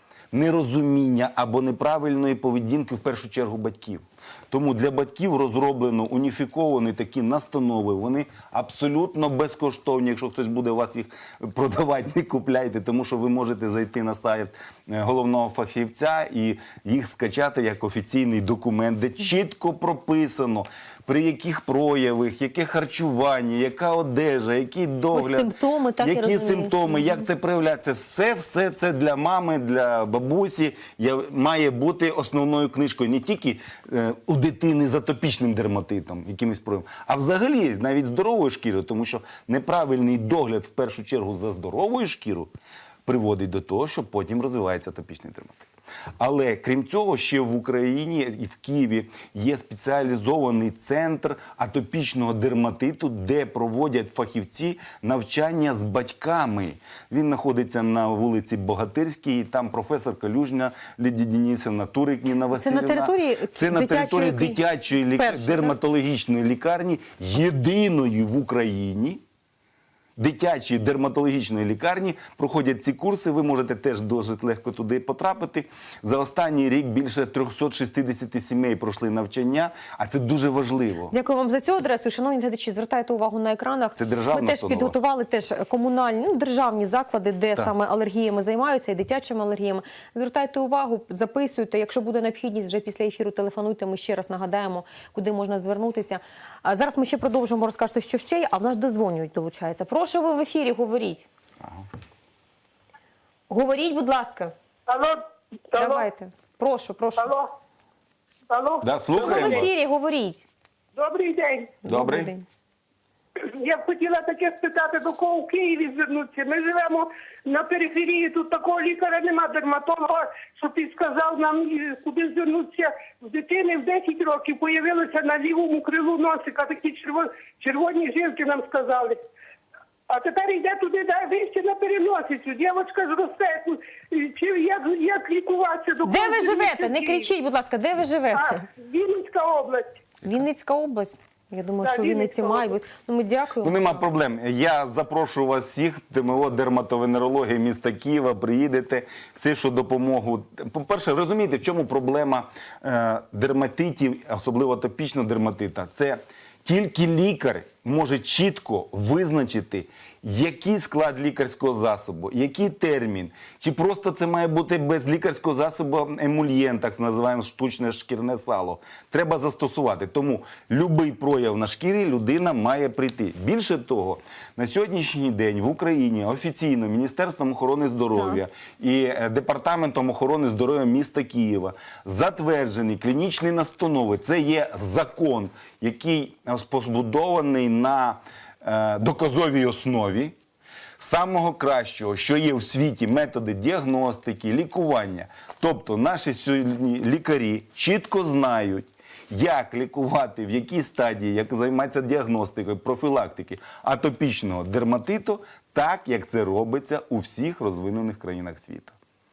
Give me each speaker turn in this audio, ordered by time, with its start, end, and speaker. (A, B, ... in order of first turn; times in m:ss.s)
0:00.3-0:42.5 A
0:25.1-0:27.1 B
0:43.0-0:45.7 A
0:46.2-1:09.2 A
1:02.5-1:05.7 B
1:10.2-1:21.1 A
1:21.1-1:41.3 B
1:24.0-1:24.9 A
1:43.5-1:44.5 B
1:44.9-1:46.0 C
1:45.7-1:47.3 B
1:47.2-1:47.5 C
1:48.5-1:49.6 C
1:48.8-1:49.7 A
1:49.1-1:50.4 B
1:51.0-1:51.7 C
1:51.8-1:52.3 A
1:51.8-1:52.4 B
1:53.4-2:09.2 C
2:10.1-2:17.3 C
2:16.0-2:18.6 B
2:18.3-2:20.0 C
2:20.2-2:23.8 B
2:21.8-2:22.7 C
2:23.6-3:10.3 A
2:58.1-2:58.4 B
3:11.0-3:28.9 A